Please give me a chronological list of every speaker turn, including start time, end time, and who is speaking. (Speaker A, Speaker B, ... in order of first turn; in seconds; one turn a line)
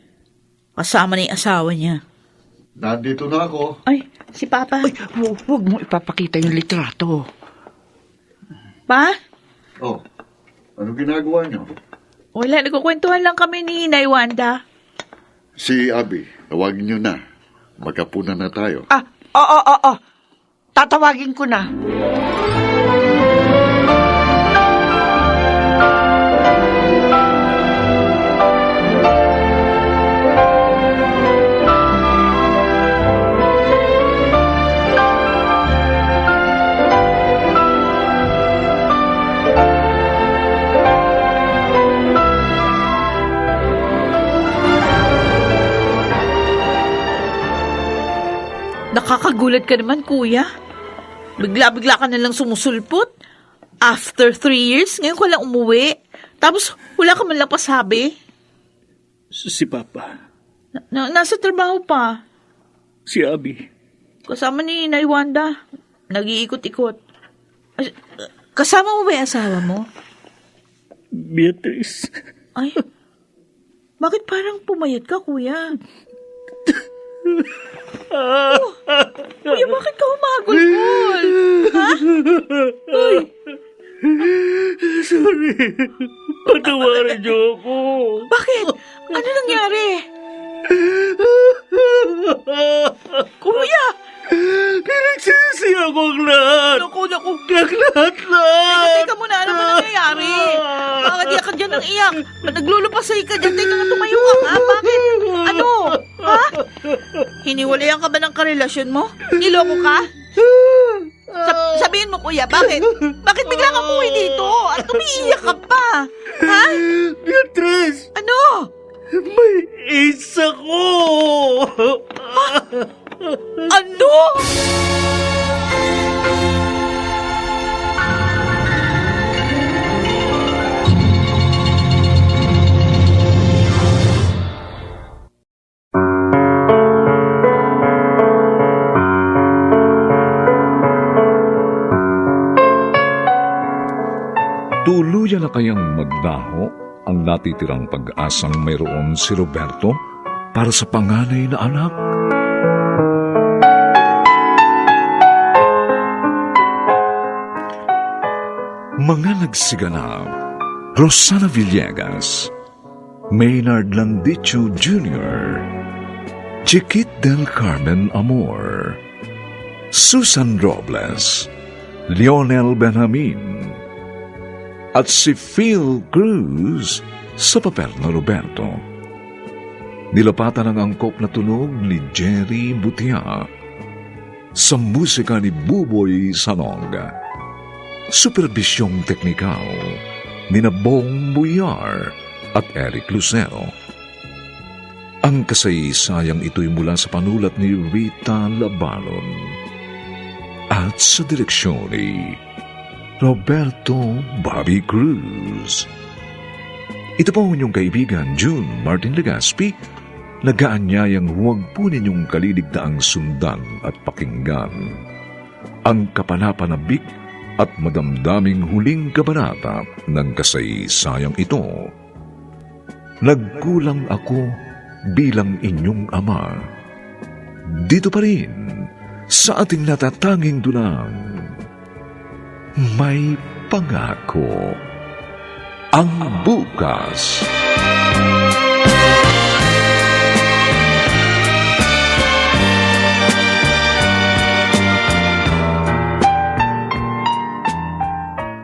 Speaker A: 0.8-2.0
Speaker B: 2.8-3.7
Speaker A: 3.9-4.9
Speaker C: 4.8-7.2
Speaker A: 8.9-9.1
Speaker B: 10.8-11.7
Speaker A: 12.3-14.6
Speaker B: 15.6-17.2
Speaker B: 17.8-18.9
Speaker C: 18.9-20.0
Speaker C: 20.8-21.7
Speaker A: 48.9-50.5
Speaker A: 51.4-53.1
Speaker A: 53.8-58.1
Speaker D: 59.4-60.1
Speaker A: 60.7-62.2
Speaker D: 63.1-63.7
Speaker A: 64.3-65.5
Speaker A: 66.1-67.0
Speaker A: 68.5-69.8
Speaker D: 71.1-72.1
Speaker A: 74.0-75.7
Speaker D: 78.1-79.5
Speaker A: 78.4-78.7
Speaker A: 79.5-82.1
Speaker D: 81.5-83.2
Speaker A: 82.9-83.3
Speaker D: 84.1-88.3
Speaker A: 86.6-87.2
Speaker A: 88.3-90.0
Speaker D: 90.7-93.2
Speaker A: 93.4-93.9
Speaker D: 94.3-96.8
Speaker A: 96.6-97.6
Speaker D: 97.6-99.0
Speaker A: 98.6-106.6
Speaker D: 99.5-101.2
Speaker D: 104.4-105.4
Speaker A: 107.4-110.1
Speaker D: 110.4-111.1
Speaker A: 111.4-116.9
Speaker D: 116.9-118.0
Speaker A: 118.1-118.7
Speaker D: 119.1-123.4
Speaker A: 122.3-122.5
Speaker A: 123.7-124.5
Speaker E: 144.8-149.9
Speaker E: 150.5-151.9
Speaker E: 159.0-160.3
Speaker E: 161.0-162.5
Speaker E: 163.3-165.6
Speaker E: 166.7-169.0
Speaker E: 169.9-171.5
Speaker E: 172.2-173.7
Speaker E: 174.9-178.8
Speaker E: 180.1-183.3
Speaker E: 184.6-187.1
Speaker E: 188.2-189.8
Speaker E: 190.5-192.0
Speaker E: 192.6-193.7
Speaker E: 195.3-199.3
Speaker E: 200.7-202.1
Speaker E: 203.2-205.8
Speaker E: 207.2-209.7
Speaker E: 210.5-214.7
Speaker E: 215.9-217.0
Speaker E: 217.6-221.7
Speaker E: 223.2-224.4
Speaker E: 225.2-226.5
Speaker E: 227.8-228.5
Speaker E: 229.3-231.2
Speaker E: 232.9-234.8
Speaker E: 236.0-237.5